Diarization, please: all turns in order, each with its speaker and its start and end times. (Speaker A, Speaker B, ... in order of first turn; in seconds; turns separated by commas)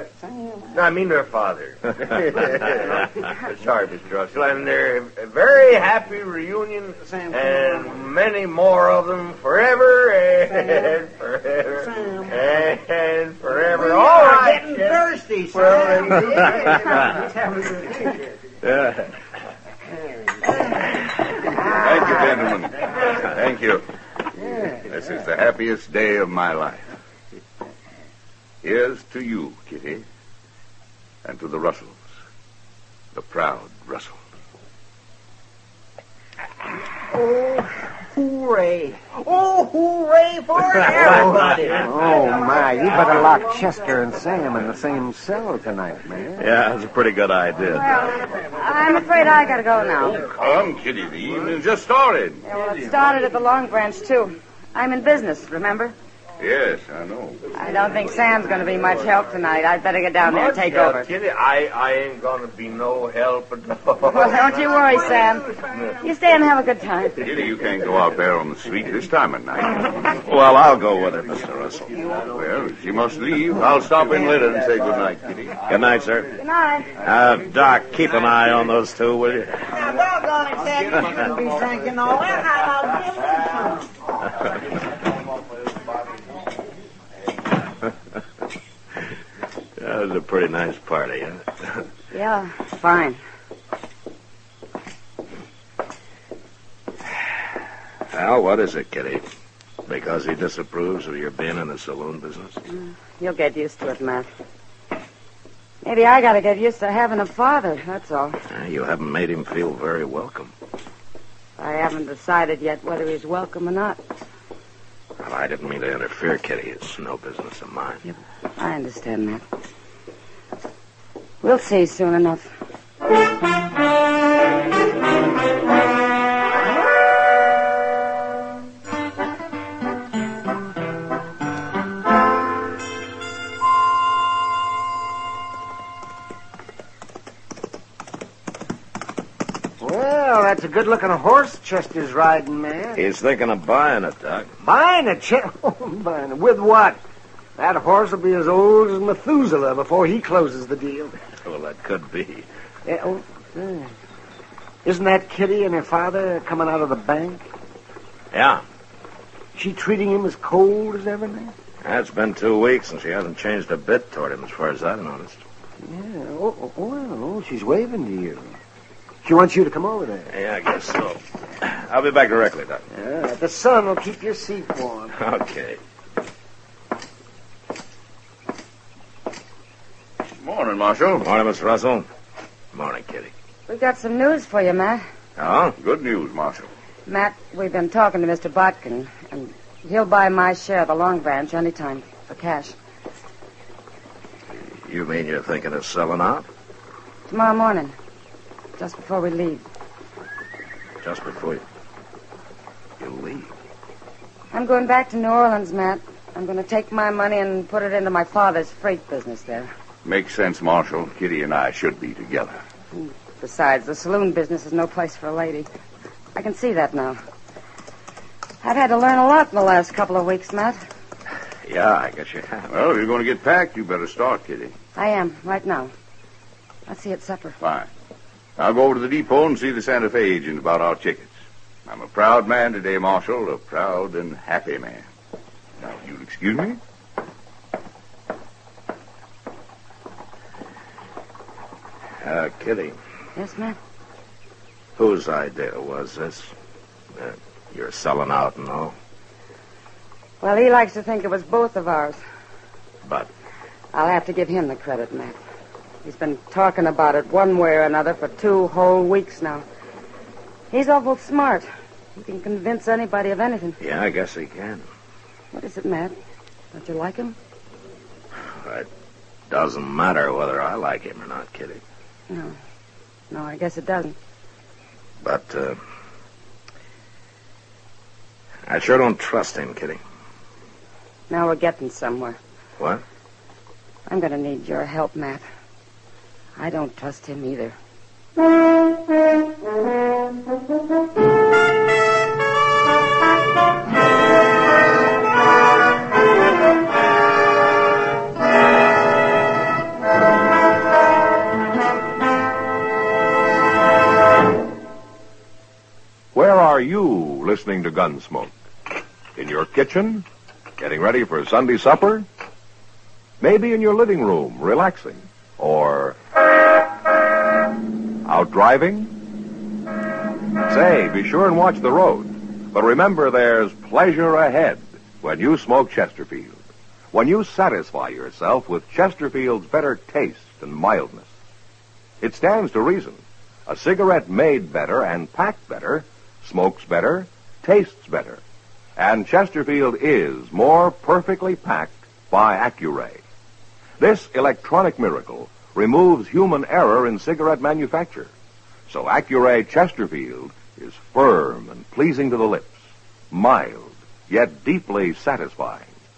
Speaker A: 0.2-0.6, Speaker B: 0.7-15.0, Speaker A: 11.8-12.3, Speaker A: 13.8-18.1, Speaker B: 15.5-16.7, Speaker C: 18.6-19.1, Speaker D: 21.7-23.9, Speaker E: 24.4-24.8, Speaker D: 24.9-26.9, Speaker D: 28.6-30.0, Speaker D: 31.2-32.1, Speaker D: 33.1-34.2, Speaker A: 37.0-41.9, Speaker C: 40.8-41.4, Speaker E: 41.8-46.5, Speaker C: 46.4-48.0, Speaker F: 47.7-50.2, Speaker D: 50.1-52.4, Speaker F: 52.5-56.0, Speaker D: 56.4-57.4, Speaker F: 57.5-61.1, Speaker B: 60.2-64.6, Speaker F: 64.1-65.5, Speaker F: 66.0-67.2, Speaker D: 67.2-70.1, Speaker C: 70.2-72.0, Speaker D: 72.2-75.6, Speaker C: 75.7-76.3, Speaker F: 76.4-76.9, Speaker C: 77.0-79.7, Speaker A: 79.7-83.9, Speaker C: 89.8-91.8, Speaker F: 92.1-93.2, Speaker C: 98.1-99.3, Speaker C: 99.9-102.6, Speaker F: 102.7-104.3, Speaker F: 105.8-108.4, Speaker C: 108.5-110.5, Speaker F: 111.6-114.0, Speaker C: 115.2-118.0, Speaker F: 118.0-119.4, Speaker F: 121.4-122.5, Speaker E: 139.8-143.1, Speaker C: 142.9-144.5, Speaker E: 144.6-147.0, Speaker E: 147.6-151.2, Speaker C: 151.4-152.5, Speaker E: 152.9-153.9, Speaker E: 154.8-157.5, Speaker C: 158.3-158.6, Speaker E: 159.5-161.5, Speaker C: 161.8-165.4, Speaker E: 165.8-168.5, Speaker E: 169.2-170.3, Speaker C: 170.3-172.8, Speaker E: 172.9-175.2, Speaker C: 175.2-175.8, Speaker D: 180.4-181.3, Speaker C: 181.2-182.1, Speaker C: 182.7-183.3, Speaker F: 183.7-185.0, Speaker C: 185.4-185.8, Speaker D: 185.8-186.7, Speaker F: 187.1-192.8, Speaker C: 194.5-196.5, Speaker F: 197.3-197.9, Speaker F: 198.8-199.7, Speaker C: 201.0-201.6, Speaker C: 203.0-203.5, Speaker F: 204.5-209.7, Speaker D: 210.0-212.6, Speaker F: 212.9-215.7, Speaker F: 216.3-217.2, Speaker F: 218.6-220.8, Speaker C: 221.6-222.7, Speaker D: 222.7-224.7, Speaker F: 225.0-225.9, Speaker F: 226.9-227.6, Speaker D: 227.6-227.9, Speaker D: 228.6-231.3, Speaker D: 231.9-235.1, Speaker D: 235.8-236.8, Speaker C: 242.2-243.0, Speaker F: 243.4-243.8, Speaker C: 245.0-246.5, Speaker C: 247.2-248.9, Speaker F: 250.4-252.2, Speaker C: 253.0-253.3, Speaker F: 253.9-255.4, Speaker F: 256.0-259.6, Speaker F: 260.7-261.7, Speaker F: 262.2-263.8, Speaker C: 263.8-264.9, Speaker F: 265.5-266.1, Speaker F: 266.7-267.4, Speaker C: 268.5-268.9, Speaker C: 269.5-271.8, Speaker F: 272.3-272.6, Speaker F: 273.3-274.1, Speaker C: 275.2-275.8, Speaker C: 278.7-280.0, Speaker F: 281.3-282.4, Speaker F: 284.1-285.4, Speaker F: 286.6-287.8, Speaker G: 306.3-308.5, Speaker G: 309.4-310.2, Speaker G: 310.8-312.3, Speaker G: 313.4-316.2, Speaker G: 318.2-319.1, Speaker G: 320.7-326.6, Speaker G: 327.1-331.3, Speaker G: 332.2-338.4, Speaker G: 339.0-343.2, Speaker G: 344.0-348.3, Speaker G: 348.9-352.8, Speaker G: 353.3-355.9